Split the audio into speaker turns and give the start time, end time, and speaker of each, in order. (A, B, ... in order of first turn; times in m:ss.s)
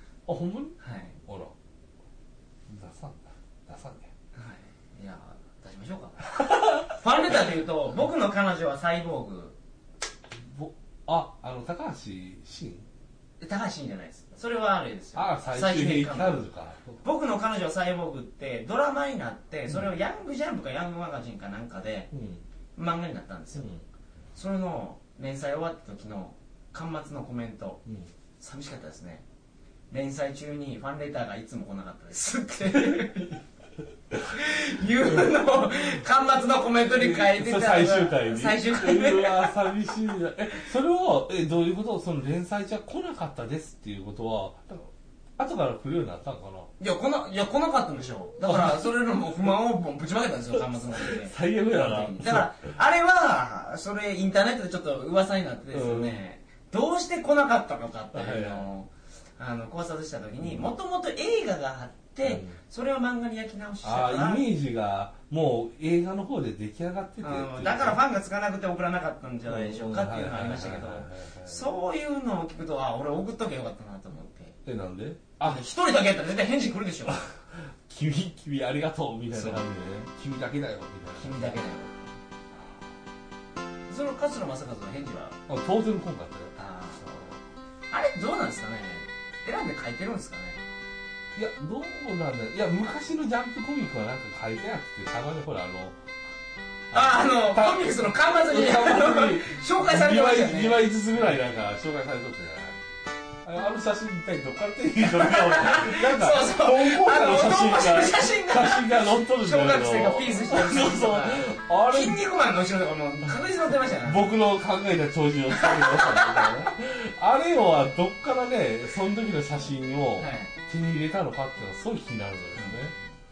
0:00.2-0:01.5 A
0:00.8-0:01.2 B
0:02.7-0:04.1 A
0:04.4-0:09.6 B
0:06.4-0:06.8 A
0:10.4-0:12.9 A
0:13.4-0:16.5 B
0:15.1-0:17.0 A
0:17.0-0:22.1 B
0:22.1-0:22.4 A
0:22.8-0:23.7 B
0:23.5-0:23.8 A
0:24.3-0:27.8 B
0:27.8-0:28.1 A
0:28.4-0:29.2 B
0:29.9-0:33.4 B
0:32.8-0:33.2 A
0:34.2-0:39.7 B
0:36.9-0:46.7 A
0:46.8-1:04.4 B
0:48.4-0:48.9 A
0:50.9-0:52.4 A
0:55.7-0:56.2 A
0:58.1-0:58.7 A
1:00.4-1:00.7 A
1:02.2-1:02.6 A
1:03.8-1:08.0 A
1:07.2-1:14.6 B
1:09.4-1:11.7 A
1:14.6-1:15.6 A
1:15.4-1:17.2 B
1:17.1-1:21.6 A
1:19.3-1:19.6 B
1:21.2-1:21.9 B
1:23.9-1:25.4 B
1:25.5-1:26.5 A
1:26.6-1:27.4 B
1:27.9-1:30.6 B
1:31.3-1:36.0 A
1:36.9-1:42.8 A
1:36.9-1:40.8 B
1:43.4-1:52.2 A
1:45.1-1:54.3 B
1:53.9-2:02.9 A
1:55.5-1:56.7 B
2:00.2-2:00.5 B